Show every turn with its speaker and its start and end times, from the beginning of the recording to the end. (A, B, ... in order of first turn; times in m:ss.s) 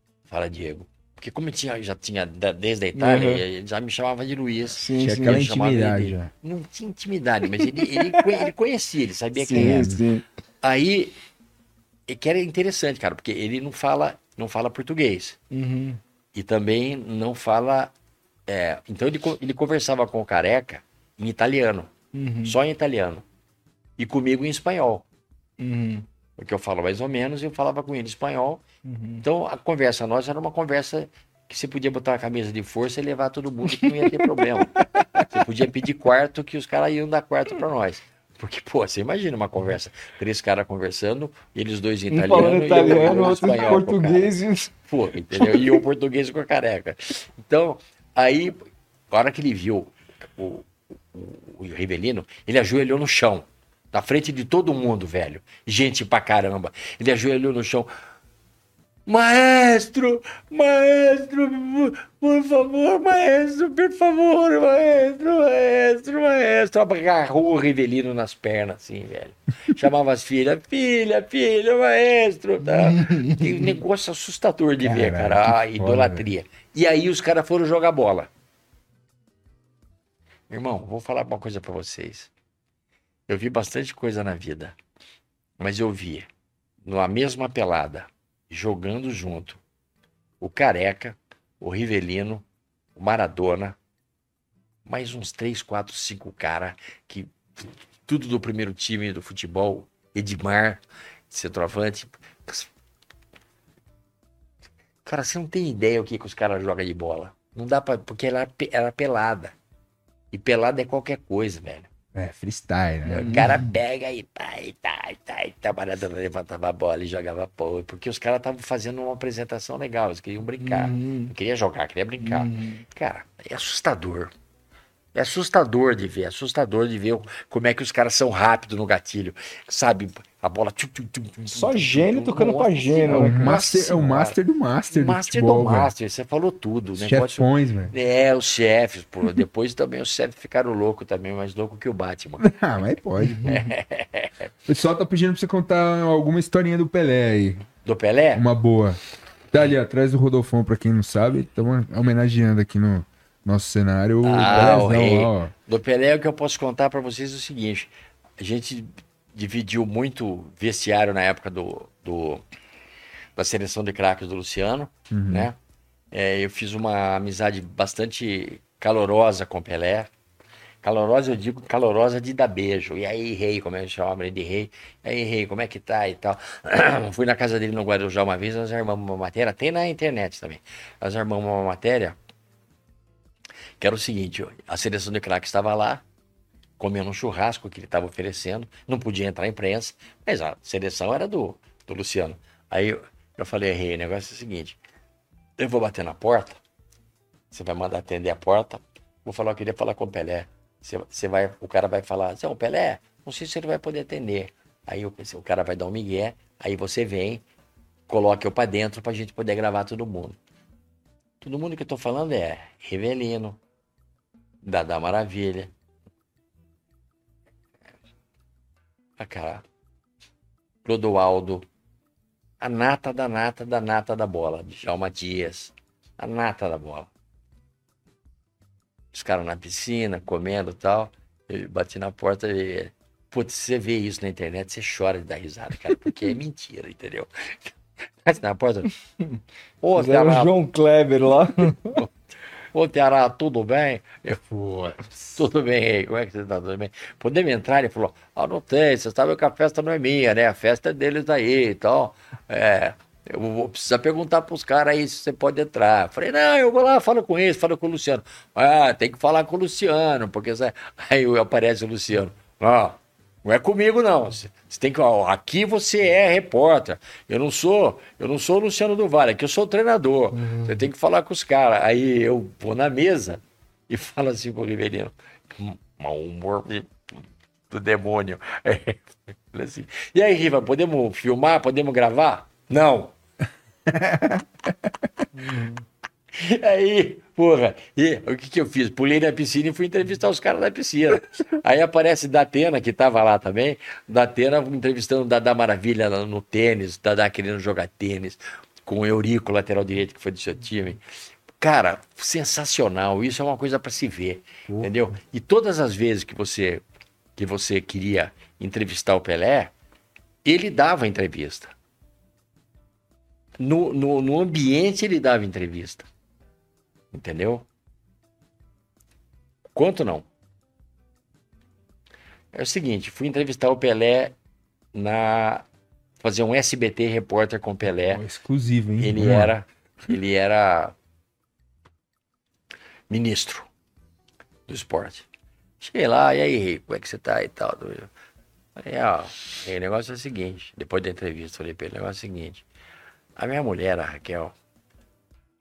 0:00.3-0:09.9 A
0:03.0-0:03.4 B
0:04.7-0:05.4 B
0:05.0-0:06.3 C
0:07.8-0:08.2 B
0:09.4-0:10.2 B
0:09.5-0:10.0 C
0:10.6-0:11.1 A
0:12.1-0:15.4 A
0:15.5-0:16.0 B
0:16.4-0:17.9 A
0:18.5-0:21.9 A
0:22.1-0:22.6 B
0:22.4-0:23.2 A
0:24.0-0:25.0 A
0:25.6-0:26.1 B
0:26.4-0:28.6 A
0:28.8-0:29.2 B
0:29.2-0:44.3 A
0:33.7-0:35.3 B
0:42.1-0:44.7 B
0:44.8-0:48.6 A
0:45.3-0:45.8 B
0:49.1-0:57.9 A
0:59.1-1:18.3 A
1:13.0-1:13.4 B
1:14.8-1:16.2 C
1:20.5-1:22.3 A
1:23.3-1:24.8 A
1:25.6-1:26.3 A
1:26.8-1:29.6 A
1:30.4-1:32.4 A
1:33.0-1:33.8 A
1:34.9-1:40.8 A
1:41.3-1:42.7 A
1:45.0-1:49.5 A
1:50.3-1:51.9 A
1:52.1-1:53.7 C
1:53.1-2:04.3 A
1:53.2-1:53.5 B
2:00.6-2:01.3 B
2:02.2-2:02.8 B
2:05.2-2:14.4 A
2:11.5-2:13.6 B
2:13.1-2:15.9 C
2:14.9-2:22.6 A
2:17.0-2:17.9 C
2:22.4-2:23.6 C
2:23.4-2:23.7 B
2:23.4-2:24.5 A
2:24.7-2:27.7 C
2:27.8-2:28.4 A
2:28.3-2:29.0 C
2:29.5-2:35.5 C
2:34.2-2:42.4 A
2:43.4-2:45.6 A
2:45.1-2:45.5 C
2:46.1-2:50.1 A
2:50.8-3:02.2 A
3:03.8-3:06.0 A
3:06.8-3:14.8 A
3:15.6-3:16.6 A
3:17.5-3:27.4 A
3:28.1-3:30.4 A
3:31.4-3:33.6 A
3:34.6-3:35.7 A
3:39.2-3:39.6 A
3:40.8-3:41.6 A
3:42.6-3:47.1 A
3:49.1-3:57.7 A
3:58.2-3:58.9 A
3:59.8-4:00.5 A
4:00.0-4:02.0 B
4:02.7-4:04.4 A
4:04.5-4:05.3 C
4:05.3-4:36.9 A
4:37.7-4:43.1 A
4:43.9-4:44.9 C
4:46.3-5:01.0 A
5:01.6-5:06.8 A
5:07.4-5:09.7 A
5:10.4-5:11.7 A
5:13.6-5:16.1 A
5:17.1-5:17.7 A
5:19.8-5:20.3 A
5:22.5-5:24.3 A
5:24.9-5:25.6 A
5:26.2-5:28.2 A
5:28.1-5:29.5 C
5:29.0-5:31.0 A
5:33.1-5:33.7 A
5:34.7-5:35.3 A
5:35.8-5:38.1 A
5:38.8-5:42.6 A
5:43.4-5:44.5 A